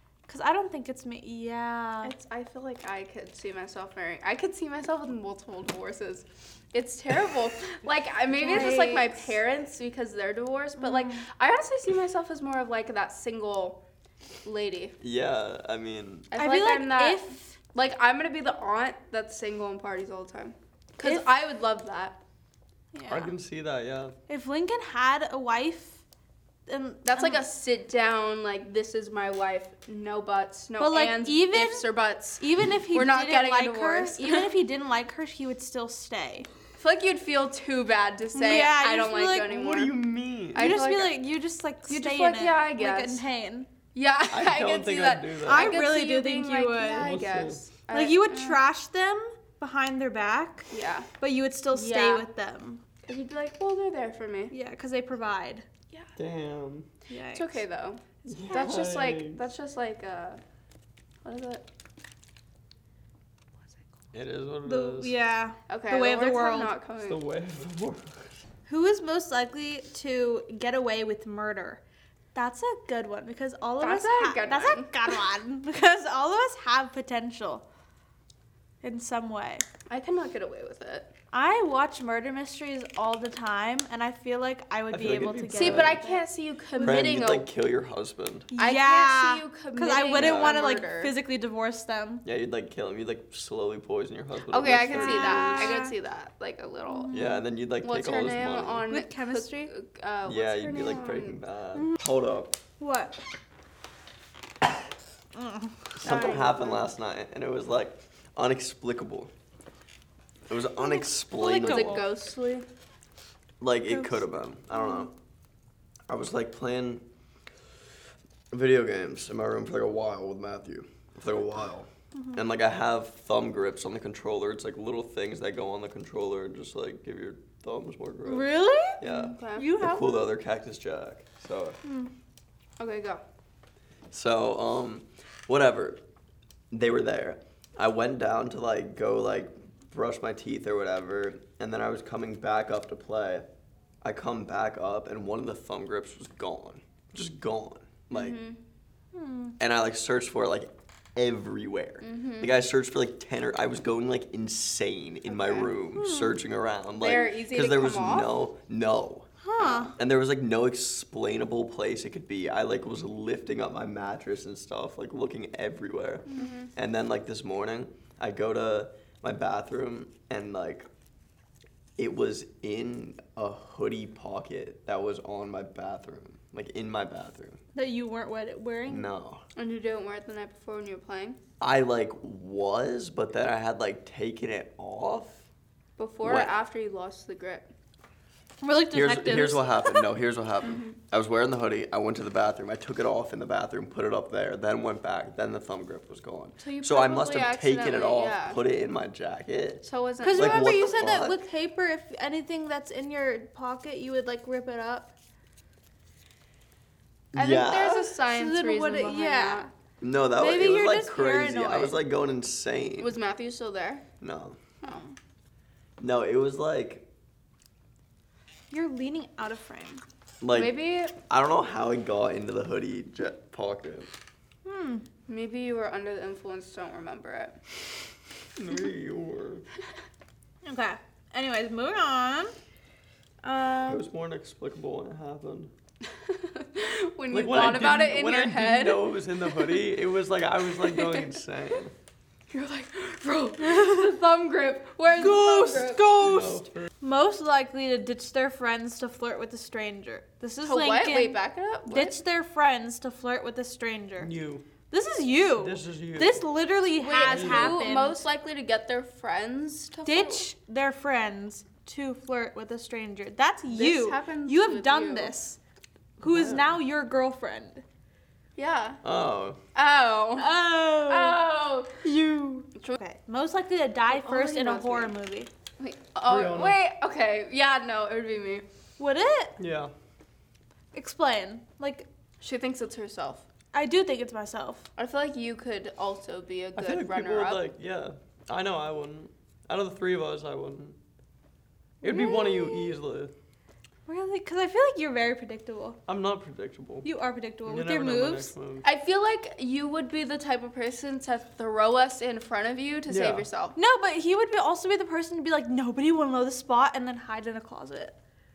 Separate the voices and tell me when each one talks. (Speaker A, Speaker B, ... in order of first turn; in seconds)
Speaker A: 0.3-2.1, 8.3-9.3, 10.8-11.2, 16.4-17.6, 22.9-23.3, 24.3-26.0, 26.7-27.4, 30.8-31.9, 32.4-36.5, 38.3-39.5, 40.5-43.7, 45.4-47.1, 47.9-52.8, 54.5-55.6, 57.1-57.6, 58.3-58.8, 64.6-66.7, 68.7-71.8, 72.3-77.6, 78.8-79.6, 81.3-86.2, 86.8-87.2, 88.5-92.2, 94.9-95.9, 96.9-97.4, 98.9-99.7, 101.7-102.0, 102.8-103.2, 105.3-106.3, 110.8-112.0, 113.9-114.2, 114.8-115.0, 122.1-122.4, 128.2-130.2, 131.8-132.1, 149.1-149.6, 155.9-156.4, 159.4-159.9, 177.7-179.1, 188.6-190.1, 200.2-205.1, 208.0-209.6, 210.3-212.0, 218.7-220.0, 224.6-225.0, 230.6-232.5, 233.4-234.1, 245.1-254.3, 254.9-258.2, 260.0-265.6, 266.2-267.8, 270.4-271.4, 272.0-275.5, 279.0-279.6, 280.9-282.1, 283.7-284.9, 292.0-293.0, 294.1-296.0, 297.0-298.5, 303.8-308.1
Speaker B: 2.0-13.8, 14.4-14.9, 16.3-22.2, 27.1-34.5, 36.8-40.0, 40.5-41.2, 41.9-43.2, 43.9-48.6, 50.7-51.1, 51.7-52.2, 53.0-54.5, 57.3-60.4, 61.2-61.6, 65.7-67.2, 73.8-75.2, 79.9-81.1, 85.5-87.5, 88.5-91.1, 94.5-97.2, 97.8-101.4, 106.0-106.8, 111.3-112.7, 129.0-129.7, 132.8-133.2, 148.1-148.6, 152.0-152.5, 155.3-155.7, 157.0-158.3, 166.3-166.7, 179.6-181.4, 186.0-187.7, 190.6-190.9, 196.6-198.6, 199.8-201.2, 207.3-209.7, 213.0-214.0, 214.8-215.1, 220.5-221.1, 225.3-227.6, 236.2-239.8, 240.8-241.3, 242.5-246.1, 250.6-252.2, 257.0-260.5, 263.7-265.3, 268.6-269.0, 269.7-272.0, 274.1-275.1, 275.8-278.6, 282.4-283.4, 285.0-287.6, 298.8-303.8
Speaker C: 15.0-16.3, 23.1-24.1, 39.4-40.8, 44.3-45.8, 47.0-47.6, 56.1-56.9, 58.3-59.4, 64.1-65.1, 67.0-68.4, 84.9-86.0, 86.8-88.5, 90.1-90.7, 92.2-95.8, 97.1-98.9, 100.2-102.6, 106.0-109.3, 110.5-112.0, 113.6-115.1, 116.1-117.0, 118.5-131.8, 134.1-136.0, 136.7-143.4, 144.0-148.4, 149.6-170.9, 172.0-177.6, 178.9-179.4, 181.6-185.4, 186.2-186.5, 188.9-201.4, 207.3-208.0, 210.0-213.2, 214.2-214.6, 216.0-217.1, 220.4-224.1, 228.6-229.7, 233.8-235.7, 237.3-241.9, 246.2-246.9, 254.2-254.7, 255.5-256.4, 257.2-257.8, 266.2-266.8, 269.0-269.6, 276.2-276.8, 279.6-279.9, 286.8-291.0, 292.0-293.3, 296.1-297.1, 297.6-298.9, 303.1-303.5